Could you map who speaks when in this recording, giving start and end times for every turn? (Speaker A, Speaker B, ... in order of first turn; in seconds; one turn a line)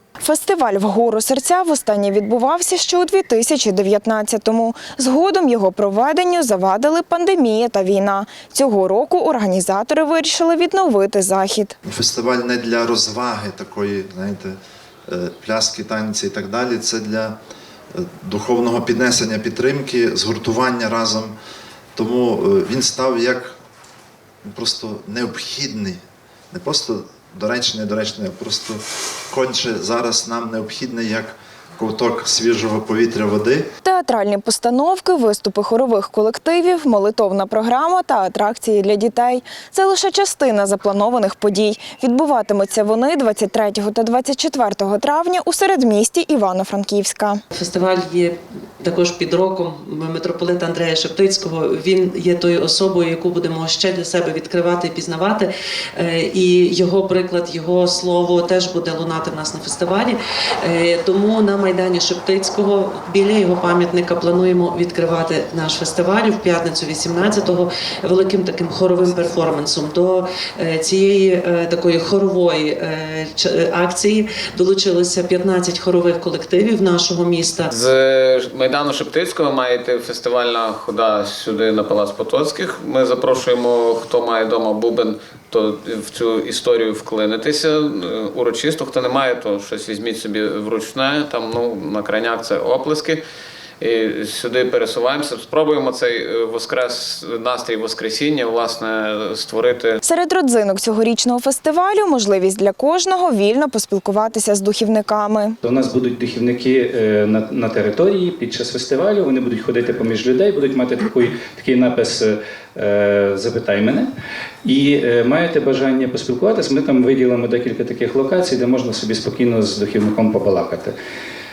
Speaker A: 0.2-11.8
Speaker B: 11.8-17.4
Speaker B: 17.9-21.3
Speaker B: 22.0-23.6
Speaker B: 24.5-33.7
Speaker A: 33.8-47.4
Speaker C: 47.5-77.7
Speaker D: 77.7-93.2
Speaker D: 93.8-100.0
Speaker A: 100.0-105.6
Speaker E: 105.6-114.1
Speaker E: 114.6-120.9